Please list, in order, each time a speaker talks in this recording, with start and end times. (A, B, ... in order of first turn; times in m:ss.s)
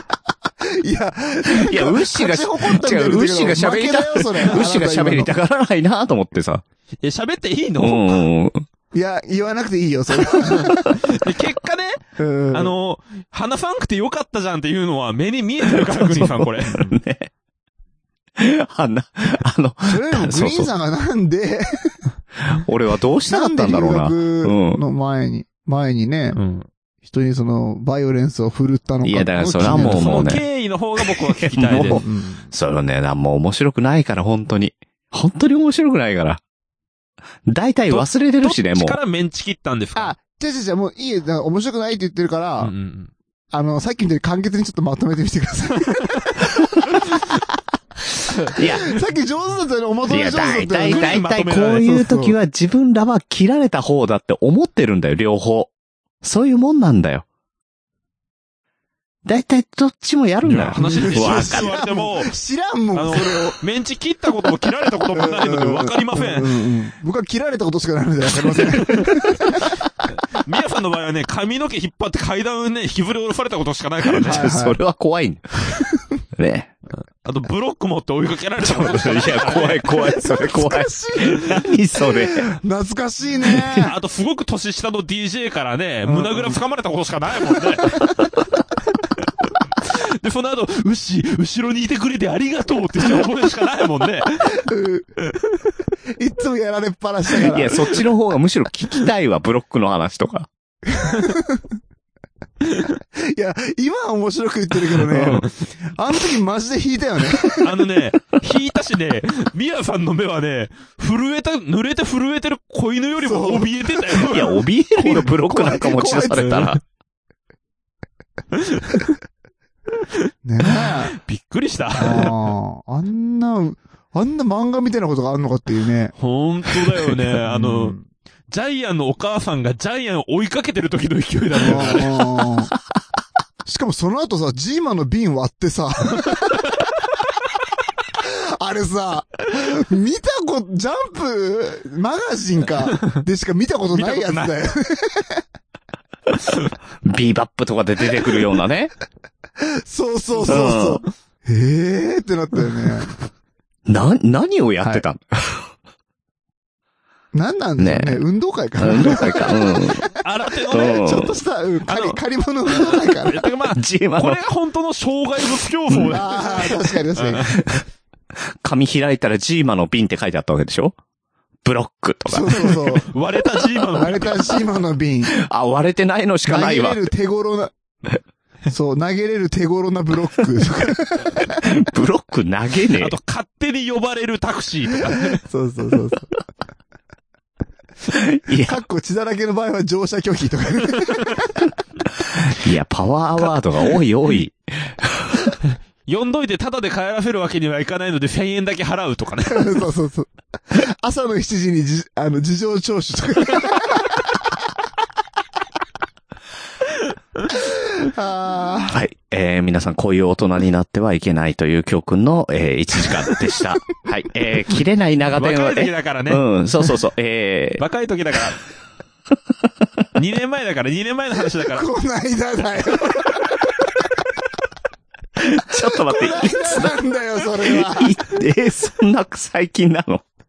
0:00.6-0:05.3 A
0:01.5-0:06.6 B
0:07.0-0:08.2 C
0:07.8-0:08.6 B
0:08.9-0:10.9 A
0:10.4-0:16.8 C
0:12.2-0:12.7 A
0:15.6-0:17.3 B
0:18.4-0:20.7 B
0:19.8-0:22.0 A
0:22.4-0:24.8 B
0:23.3-0:26.4 A
0:26.3-0:26.7 C
0:27.0-0:30.3 A
0:29.0-0:30.4 B
0:29.6-0:32.0 C
0:31.0-0:36.4 B
0:31.7-0:32.5 A
0:37.4-0:39.0 B
0:37.9-0:40.1 C
0:40.0-0:42.7 A
0:42.6-0:43.1 C
0:43.5-0:46.5 A
0:48.5-0:51.2 A
0:48.6-0:48.9 B
0:50.1-0:57.2 B
0:50.8-0:51.9 C
0:51.8-0:52.4 A
0:59.2-1:01.8 B
1:00.4-1:02.3 C
1:00.8-1:03.6 A
1:02.9-1:06.6 C
1:05.1-1:09.8 A
1:08.8-1:09.5 C
1:10.3-1:14.5 C
1:14.1-1:15.7 B
1:14.2-1:14.8 A
1:16.4-1:16.7 B
1:17.2-1:20.5 C
1:18.6-1:22.6 B
1:20.2-1:23.9 A
1:23.5-1:23.8 B
1:23.8-1:28.0 C
1:26.0-1:26.6 A
1:29.8-1:34.6 C
1:34.5-1:35.1 A
1:35.3-1:35.7 C
1:36.2-1:37.8 A
1:37.4-1:40.5 B
1:40.8-1:41.6 A
1:43.2-1:47.8 A
1:45.1-1:45.5 C
1:47.4-1:54.5 C
1:53.2-1:56.7 A
1:54.1-1:56.8 B
1:56.4-1:56.8 C
1:58.5-1:59.1 C
2:00.1-2:02.3 C
2:00.4-2:01.2 A
2:02.0-2:06.1 A
2:06.2-2:08.0 C
2:07.5-2:08.0 A
2:08.5-2:12.2 C
2:11.6-2:12.7 A
2:13.6-2:16.7 A
2:18.2-2:25.4 A
2:23.9-2:24.7 C
2:27.0-2:28.9 B
2:29.6-2:33.2 A
2:30.5-2:31.0 B
2:33.9-2:35.7 B
2:37.3-2:40.2 A
2:37.8-2:38.2 B
2:38.8-2:40.1 B
2:40.2-2:41.1 C
2:40.7-2:43.5 A
2:40.7-2:41.3 B
2:41.9-2:47.8 C
2:43.7-2:44.4 B
2:46.1-2:47.6 A
2:48.6-2:50.9 B
2:51.6-2:52.6 B
2:52.2-2:53.1 A
2:52.9-2:54.4 C
2:53.9-2:55.4 A
2:55.3-2:57.0 B
2:56.4-2:57.8 A
2:58.7-3:01.7 A
3:01.6-3:03.2 B
3:03.0-3:05.4 C
3:05.3-3:06.4 A
3:08.1-3:08.8 B
3:08.5-3:11.7 A
3:12.5-3:15.3 B
3:16.1-3:19.8 C
3:19.5-3:24.2 A
3:27.5-3:29.0 A
3:28.9-3:37.8 B
3:35.4-3:36.5 C
3:37.8-3:38.6 C
3:40.1-3:41.8 C
3:41.7-3:43.5 A
3:45.4-3:46.9 B
3:45.7-3:48.2 A
3:47.8-3:50.2 B